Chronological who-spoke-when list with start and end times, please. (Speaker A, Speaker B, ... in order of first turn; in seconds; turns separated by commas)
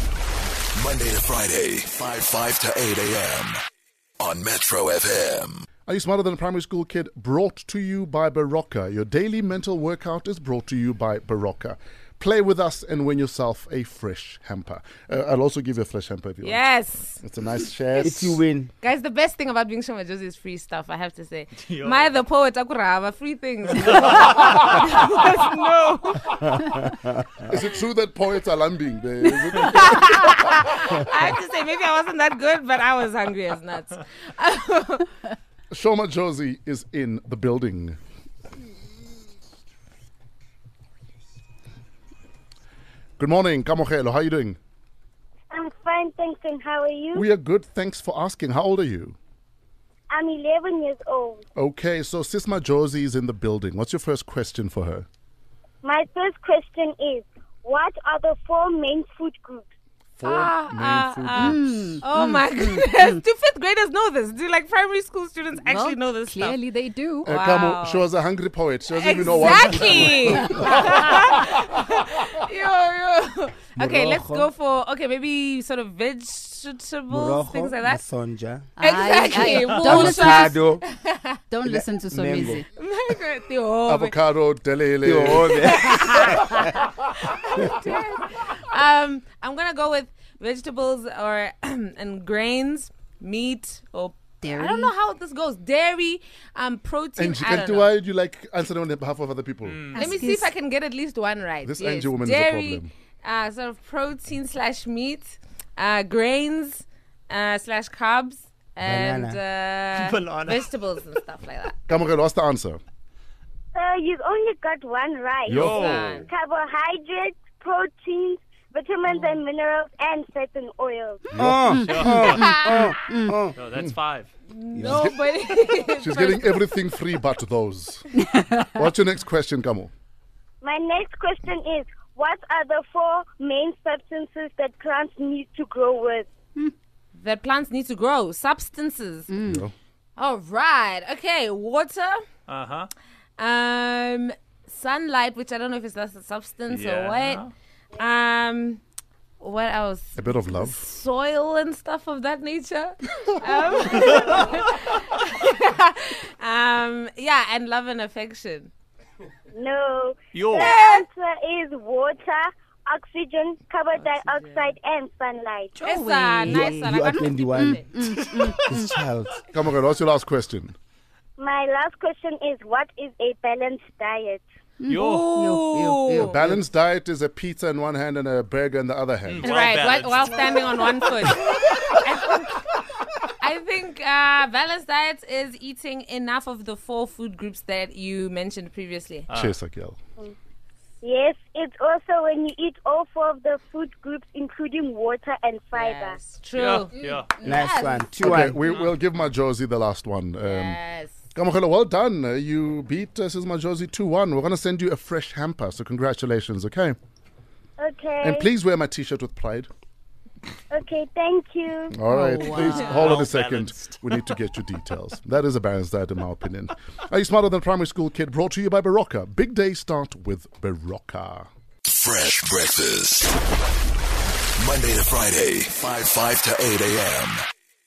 Speaker A: 0.8-3.6, Speaker A: 4.2-5.6, Speaker B: 5.9-16.7, Speaker C: 16.4-17.2, Speaker B: 17.2-18.4, Speaker D: 18.0-18.7, Speaker C: 18.8-26.6, Speaker E: 21.6-22.1, Speaker E: 23.9-24.3, Speaker B: 27.4-30.5, Speaker C: 29.6-35.1, Speaker B: 35.7-38.0, Speaker B: 43.2-44.6, Speaker F: 45.5-47.2, Speaker B: 47.1-49.1, Speaker F: 50.1-51.4, Speaker B: 51.5-55.1, Speaker F: 55.8-59.6, Speaker B: 60.2-62.0, Speaker C: 60.2-66.6, Speaker G: 61.3-63.2, Speaker G: 65.6-67.3, Speaker C: 67.2-68.1, Speaker B: 67.2-71.1, Speaker C: 69.0-78.0, Speaker G: 70.4-70.8, Speaker D: 73.8-74.5, Speaker D: 77.1-78.7, Speaker G: 78.8-80.7, Speaker C: 78.8-81.4, Speaker E: 79.5-79.9, Speaker D: 79.8-80.9, Speaker G: 81.5-82.7, Speaker D: 81.7-82.6, Speaker C: 82.8-84.1, Speaker B: 83.9-85.9, Speaker D: 85.0-86.8, Speaker C: 85.6-97.9, Speaker G: 94.4-95.0, Speaker B: 97.2-99.9, Speaker E: 99.7-100.1, Speaker G: 99.9-100.5, Speaker C: 100.0-111.8, Speaker B: 101.7-102.9, Speaker D: 108.8-109.4, Speaker E: 109.9-110.7, Speaker B: 111.9-112.8, Speaker F: 113.7-121.3, Speaker B: 115.5-116.0, Speaker E: 115.5-116.2, Speaker C: 115.6-116.3, Speaker B: 121.3-121.7, Speaker D: 121.3-123.6, Speaker G: 121.7-123.4, Speaker E: 121.8-122.6, Speaker C: 122.3-122.9, Speaker E: 123.5-124.3, Speaker C: 124.5-126.7, Speaker D: 124.7-125.1, Speaker B: 124.9-125.1, Speaker B: 126.0-129.9, Speaker F: 130.6-136.3, Speaker C: 137.1-139.3, Speaker G: 139.3-139.6, Speaker B: 139.4-139.7, Speaker C: 140.2-142.2, Speaker E: 142.5-142.9, Speaker C: 143.4-147.4, Speaker E: 146.7-147.5, Speaker C: 148.0-148.8, Speaker C: 149.4-158.7, Speaker B: 150.2-150.8, Speaker F: 159.5-165.8, Speaker E: 160.3-160.7, Speaker C: 160.6-161.1, Speaker C: 163.9-164.8, Speaker G: 165.8-169.0, Speaker C: 165.8-167.9, Speaker D: 166.4-168.0, Speaker E: 168.2-168.5, Speaker D: 168.6-169.4, Speaker B: 169.5-170.8, Speaker F: 171.4-174.4, Speaker G: 174.8-176.6, Speaker E: 174.9-175.4, Speaker C: 175.2-176.4, Speaker B: 176.2-179.6, Speaker E: 179.2-181.9, Speaker C: 179.4-182.7, Speaker C: 183.4-189.3, Speaker E: 189.3-189.6, Speaker B: 189.3-190.0, Speaker F: 191.0-196.2, Speaker C: 195.8-198.2, Speaker E: 196.6-197.4, Speaker G: 197.4-197.7, Speaker D: 197.4-198.6, Speaker B: 198.2-200.8, Speaker E: 198.6-198.9, Speaker C: 200.5-201.2, Speaker B: 201.3-207.0, Speaker F: 207.8-208.4, Speaker B: 208.2-209.7, Speaker F: 210.7-212.0, Speaker B: 211.9-221.5, Speaker G: 212.1-212.9, Speaker E: 212.8-214.2, Speaker A: 221.9-223.3, Speaker A: 224.6-227.4